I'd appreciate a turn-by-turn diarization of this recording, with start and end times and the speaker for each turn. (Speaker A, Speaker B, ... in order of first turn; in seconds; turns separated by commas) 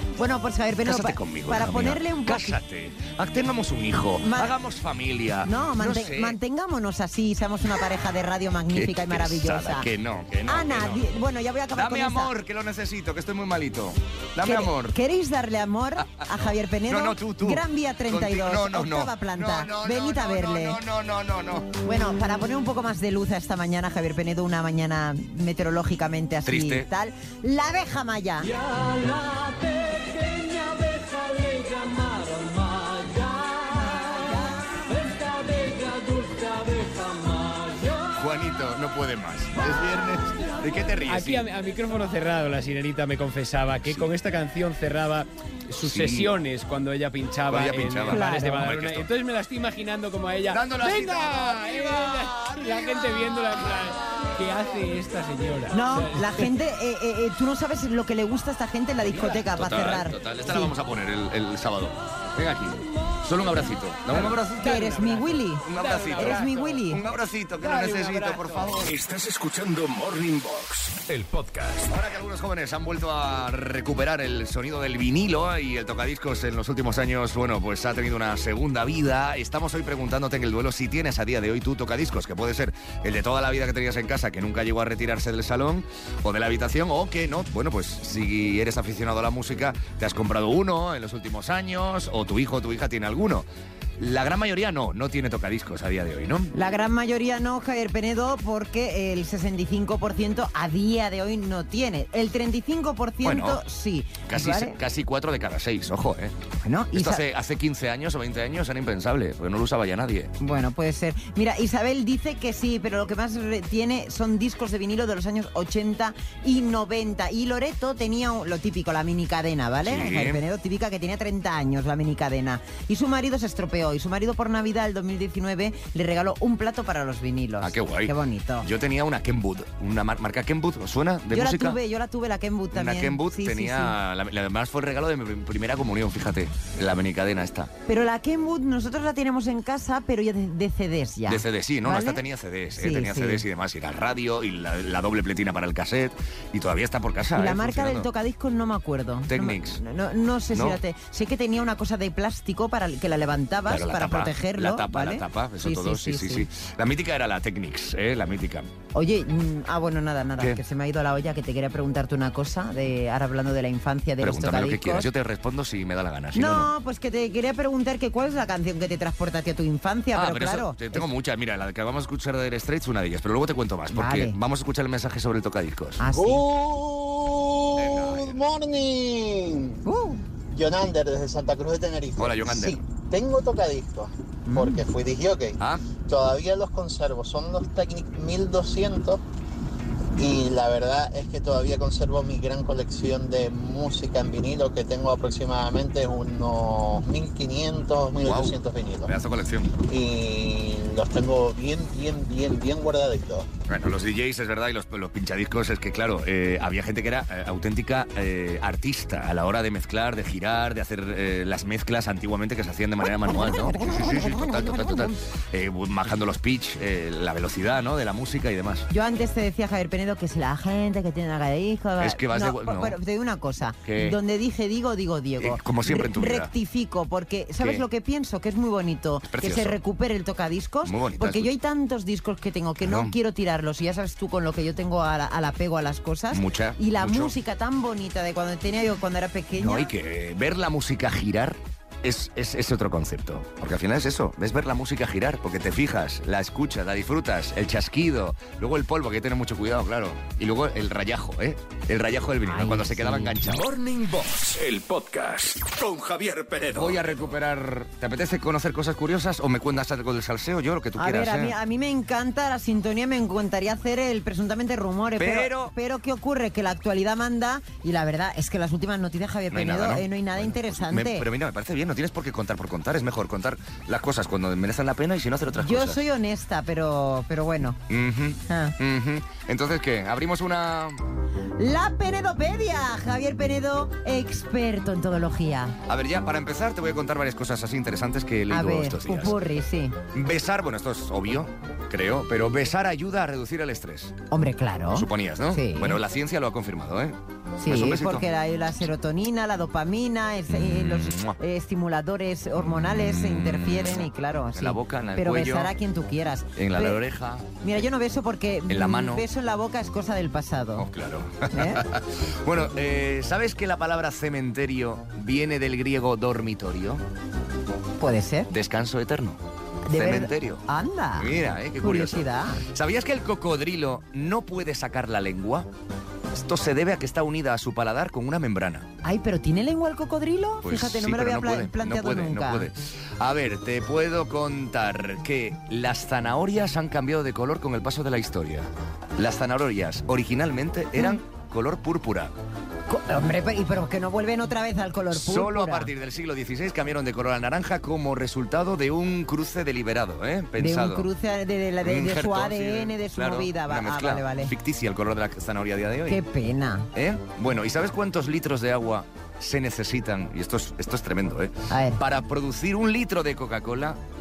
Speaker A: 0.2-2.6, Speaker B: 0.8-6.4, Speaker A: 4.2-4.5, Speaker A: 5.5-9.9, Speaker B: 8.7-11.0, Speaker A: 10.5-12.3, Speaker B: 11.7-15.0, Speaker A: 14.4-20.8, Speaker B: 16.2-21.7, Speaker A: 21.8-28.5, Speaker B: 26.4-26.9, Speaker C: 28.6-33.8, Speaker C: 35.1-38.1, Speaker B: 38.2-41.5, Speaker D: 41.1-56.5, Speaker B: 43.8-44.1, Speaker B: 45.8-46.4, Speaker B: 47.5-49.1, Speaker A: 48.1-48.7, Speaker B: 50.5-52.1, Speaker A: 55.7-60.7, Speaker B: 59.0-64.6, Speaker A: 64.1-67.0, Speaker D: 64.2-66.8, Speaker B: 65.6-68.9, Speaker D: 67.6-68.9, Speaker E: 68.8-71.9, Speaker B: 71.9-93.5, Speaker B: 94.0-96.5, Speaker A: 96.5-104.8, Speaker B: 103.2-103.6, Speaker B: 104.3-106.3, Speaker A: 106.6-107.2, Speaker B: 106.9-110.3, Speaker A: 110.4-128.7, Speaker B: 119.8-120.4, Speaker B: 127.6-131.8, Speaker A: 131.3-134.0, Speaker B: 132.7-137.7, Speaker A: 137.9-142.2, Speaker B: 141.3-148.1, Speaker A: 142.8-143.4, Speaker A: 147.4-156.5, Speaker B: 149.3-149.8, Speaker B: 150.5-150.8, Speaker B: 153.7-158.7, Speaker A: 158.9-165.1, Speaker B: 164.2-166.7, Speaker A: 166.3-171.1, Speaker B: 170.1-176.1, Speaker A: 173.9-174.4, Speaker A: 176.0-176.4, Speaker F: 176.1-179.8, Speaker B: 177.8-178.4, Speaker A: 179.8-180.2, Speaker F: 180.5-189.2, Speaker B: 182.2-182.8, Speaker A: 184.5-184.8, Speaker B: 185.6-185.9, Speaker F: 190.2-199.1, Speaker B: 198.2-199.7, Speaker F: 199.9-203.5, Speaker B: 203.7-218.9, Speaker A: 213.1-215.2, Speaker A: 218.9-239.9, Speaker B: 222.0-223.0, Speaker B: 223.8-224.2, Speaker B: 225.4-226.5, Speaker B: 227.6-227.8, Speaker B: 229.3-229.8, Speaker B: 230.8-231.5, Speaker B: 232.8-233.1, Speaker B: 236.3-237.3, Speaker B: 239.6-253.6, Speaker A: 252.4-253.4, Speaker E: 253.4-257.3, Speaker B: 256.7-261.6, Speaker A: 261.0-271.3, Speaker B: 265.2-265.7, Speaker B: 269.5-276.0, Speaker A: 275.6-277.8, Speaker B: 277.9-281.0, Speaker A: 278.5-278.8, Speaker A: 281.6-285.8, Speaker B: 285.9-289.4, Speaker A: 288.5-290.0, Speaker B: 290.1-294.1, Speaker A: 294.3-296.0, Speaker B: 294.9-298.2, Speaker A: 297.6-307.0, Speaker B: 300.5-301.4, Speaker B: 302.6-305.8, Speaker B: 306.6-307.6, Speaker A: 307.6-310.9, Speaker B: 308.7-309.3, Speaker B: 310.8-317.0, Speaker A: 311.5-311.8, Speaker A: 318.0-318.5, Speaker B: 318.5-320.6, Speaker A: 319.9-322.6, Speaker B: 321.2-325.7, Speaker B: 326.3-328.9, Speaker A: 329.0-332.7, Speaker B: 330.6-342.3, Speaker A: 342.9-345.9, Speaker B: 345.1-351.1, Speaker A: 350.6-354.5, Speaker B: 351.8-356.2, Speaker A: 356.1-356.9, Speaker B: 356.9-364.0, Speaker A: 361.7-362.0